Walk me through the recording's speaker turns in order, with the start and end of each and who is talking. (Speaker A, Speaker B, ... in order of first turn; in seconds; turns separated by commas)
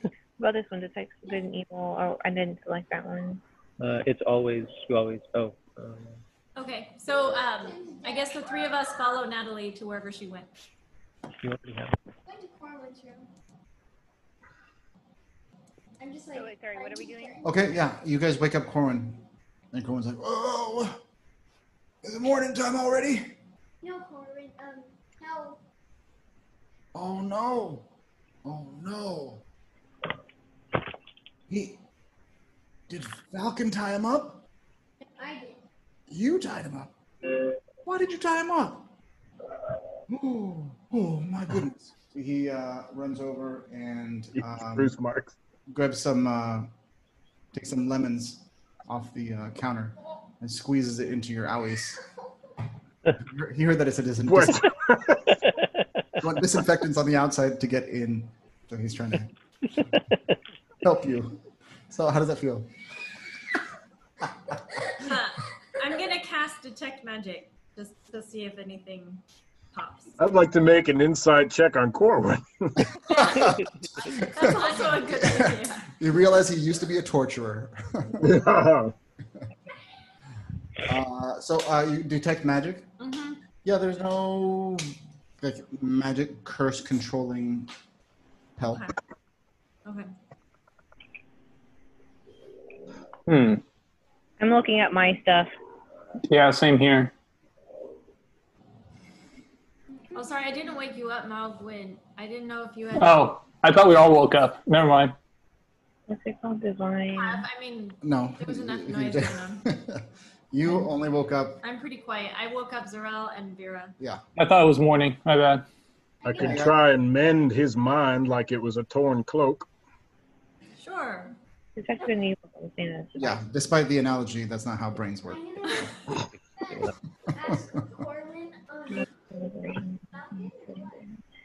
Speaker A: 0.4-3.4, Speaker B: 3.8-6.2, Speaker C: 6.5-10.5, Speaker D: 7.1-8.9, Speaker B: 11.4-11.9, Speaker D: 12.3-13.2, Speaker D: 16.0-17.6, Speaker A: 16.3-17.3, Speaker E: 17.4-21.0, Speaker E: 22.0-23.3, Speaker D: 23.8-25.6, Speaker E: 26.9-27.9, Speaker E: 28.4-29.4, Speaker E: 31.5-31.8, Speaker E: 32.9-34.4, Speaker D: 35.2-35.6, Speaker E: 36.1-36.9, Speaker E: 37.8-38.9, Speaker E: 40.1-45.0, Speaker F: 44.4-45.3, Speaker E: 45.7-46.7, Speaker E: 47.5-52.0, Speaker E: 53.2-54.7, Speaker F: 54.3-55.3, Speaker E: 56.2-59.3, Speaker E: 60.8-62.7, Speaker C: 65.0-70.2, Speaker F: 70.2-72.9, Speaker C: 73.1-73.5, Speaker E: 73.1-78.4, Speaker C: 74.1-75.9, Speaker F: 78.2-78.9, Speaker E: 80.8-82.9, Speaker C: 83.0-83.4, Speaker E: 83.6-87.7, Speaker E: 88.6-88.9, Speaker C: 89.8-90.1, Speaker G: 93.3-93.6, Speaker A: 94.4-95.5, Speaker G: 96.3-97.1, Speaker C: 100.1-103.2, Speaker G: 103.0-105.2, Speaker A: 106.1-107.4, Speaker C: 107.1-109.7, Speaker E: 108.0-111.6, Speaker C: 111.6-114.0, Speaker G: 114.3-115.7, Speaker D: 116.2-116.7, Speaker F: 116.2-119.7, Speaker E: 116.4-116.7, Speaker C: 120.8-121.3, Speaker A: 121.8-123.4, Speaker E: 123.2-125.4, Speaker D: 125.2-129.1, Speaker E: 127.4-127.7, Speaker A: 129.0-130.0, Speaker D: 130.1-131.1